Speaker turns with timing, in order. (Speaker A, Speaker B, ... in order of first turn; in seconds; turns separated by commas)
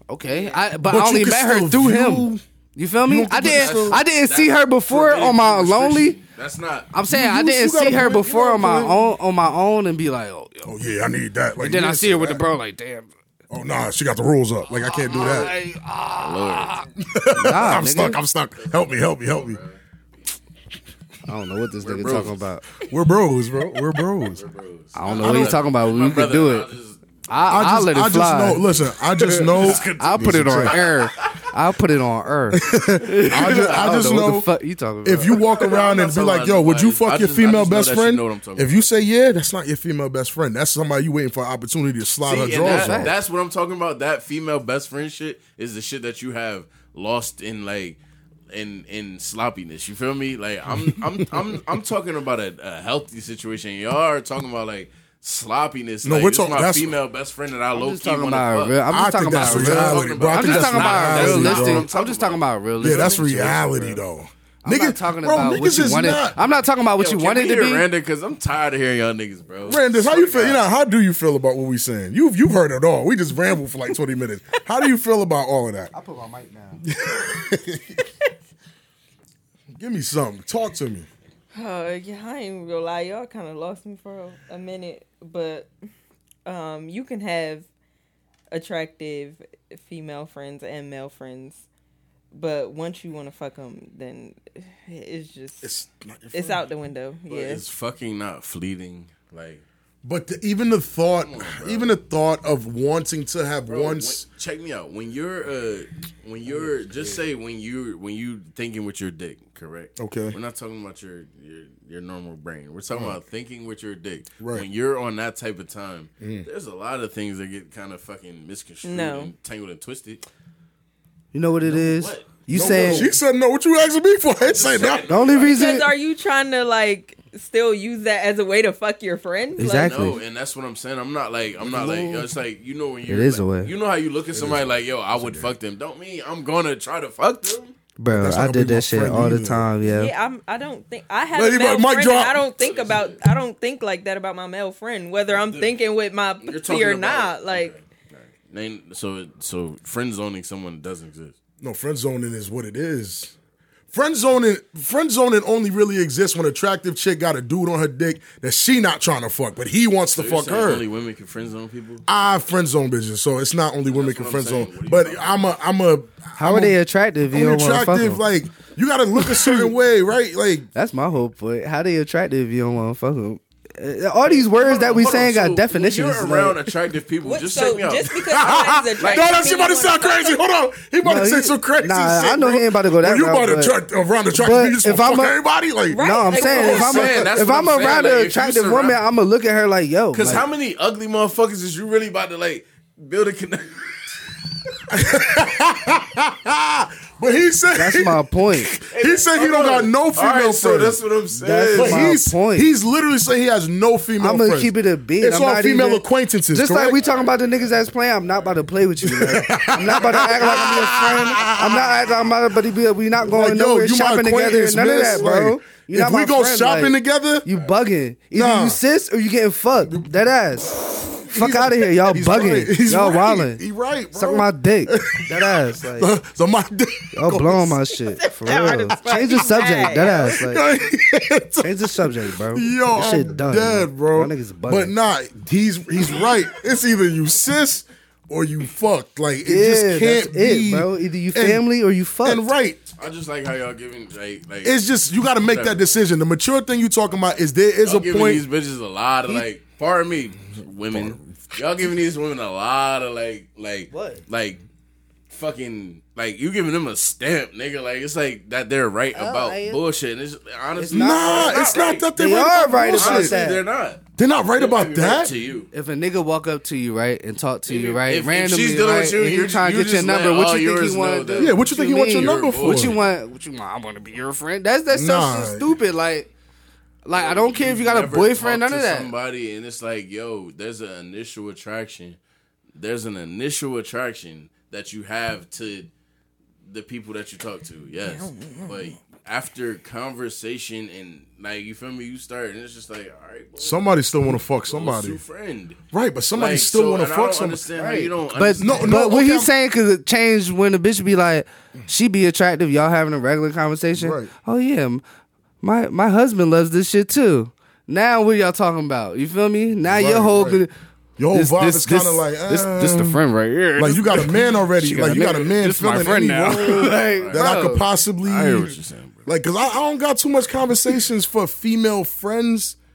Speaker A: 0.1-6.2, Speaker B: 0.3-0.7, Speaker C: 0.9-2.4, Speaker C: 3.0-4.0, Speaker D: 3.5-6.9, Speaker A: 6.9-10.7, Speaker C: 7.1-9.0, Speaker C: 10.7-12.4, Speaker A: 11.6-13.1, Speaker C: 13.5-15.5, Speaker A: 14.8-18.2, Speaker D: 15.1-15.5, Speaker D: 16.2-16.8, Speaker C: 17.0-19.6, Speaker D: 18.6-19.8, Speaker A: 21.3-22.6, Speaker D: 21.8-22.4, Speaker C: 22.9-24.4, Speaker D: 24.2-27.0, Speaker A: 24.9-26.7, Speaker C: 25.1-25.6, Speaker A: 27.3-28.6, Speaker C: 27.5-30.8, Speaker A: 29.2-35.4, Speaker D: 29.4-31.4, Speaker C: 32.5-34.5, Speaker D: 33.2-34.0, Speaker C: 35.0-43.1, Speaker D: 35.4-38.9, Speaker D: 42.2-48.0, Speaker A: 42.6-43.1, Speaker D: 48.5-63.5, Speaker C: 56.0-57.0, Speaker A: 57.7-64.0, Speaker C: 58.9-61.9, Speaker C: 62.8-66.4, Speaker A: 64.6-67.8, Speaker D: 67.0-70.6, Speaker C: 69.7-75.9, Speaker A: 75.9-76.8, Speaker C: 76.8-78.0, Speaker C: 79.8-81.1, Speaker B: 81.5-85.7, Speaker B: 86.5-87.7, Speaker B: 88.5-91.7, Speaker B: 92.3-95.7, Speaker C: 95.6-96.7, Speaker B: 96.3-97.6, Speaker D: 97.3-99.6, Speaker C: 100.0-104.2, Speaker D: 101.2-101.9, Speaker D: 103.7-120.2, Speaker C: 110.0-110.4, Speaker C: 112.9-113.2, Speaker C: 114.4-114.7, Speaker C: 116.2-116.5, Speaker B: 118.8-119.3, Speaker A: 121.3-123.1, Speaker D: 121.6-123.1, Speaker C: 122.5-125.1, Speaker D: 124.4-125.8, Speaker A: 125.1-125.9, Speaker B: 125.4-130.0, Speaker A: 129.6-130.2, Speaker D: 129.7-137.7, Speaker C: 131.6-132.3, Speaker A: 133.1-133.7, Speaker C: 134.3-135.6, Speaker A: 138.0-140.1, Speaker C: 138.1-139.7, Speaker B: 139.8-147.8, Speaker C: 141.3-142.4, Speaker D: 142.6-143.2, Speaker D: 145.3-145.7, Speaker D: 146.4-151.4, Speaker C: 151.6-153.3, Speaker C: 153.9-160.8, Speaker D: 160.2-162.1, Speaker C: 162.1-166.8, Speaker D: 163.9-165.5, Speaker A: 166.4-168.2, Speaker C: 167.3-170.7, Speaker A: 169.2-169.7, Speaker A: 170.8-176.7, Speaker D: 174.3-179.3, Speaker B: 177.2-180.4, Speaker C: 178.2-187.2, Speaker A: 181.0-183.8, Speaker A: 184.3-185.4, Speaker B: 185.9-187.1, Speaker A: 185.9-190.4, Speaker D: 186.4-189.0, Speaker D: 190.1-194.0, Speaker C: 194.9-207.0, Speaker A: 197.8-198.7, Speaker D: 198.8-202.1, Speaker A: 201.6-202.7, Speaker A: 204.2-223.6, Speaker D: 207.0-207.7, Speaker C: 209.0-212.0, Speaker D: 210.0-210.3, Speaker C: 213.2-217.5, Speaker C: 218.3-218.8, Speaker C: 221.2-227.8, Speaker A: 224.2-226.1, Speaker A: 227.1-230.6, Speaker B: 228.2-230.4, Speaker C: 230.0-241.6, Speaker A: 231.6-234.9, Speaker A: 239.5-242.5, Speaker C: 242.2-242.8, Speaker D: 243.0-244.8, Speaker C: 244.6-248.4, Speaker D: 245.4-245.9, Speaker D: 247.8-254.6, Speaker C: 250.9-251.2, Speaker A: 253.9-254.2, Speaker D: 255.3-262.1, Speaker A: 259.1-259.8, Speaker A: 260.8-261.6, Speaker C: 260.9-263.4, Speaker A: 262.1-263.6, Speaker D: 262.9-264.0, Speaker C: 264.2-265.3, Speaker D: 264.6-265.7, Speaker A: 265.7-276.3, Speaker D: 267.7-273.0, Speaker C: 271.4-272.9, Speaker C: 274.9-275.7, Speaker A: 277.1-279.1, Speaker D: 277.1-282.2, Speaker D: 282.8-285.9, Speaker D: 286.7-293.9, Speaker C: 293.6-295.2, Speaker D: 294.7-295.8, Speaker C: 295.9-297.6, Speaker D: 296.3-299.0, Speaker A: 297.8-305.0, Speaker C: 298.6-299.5, Speaker C: 304.0-304.3, Speaker A: 305.6-310.7, Speaker C: 309.9-310.6, Speaker C: 311.2-313.2, Speaker A: 311.3-317.8, Speaker C: 313.8-322.8, Speaker D: 316.6-317.5, Speaker D: 318.2-319.3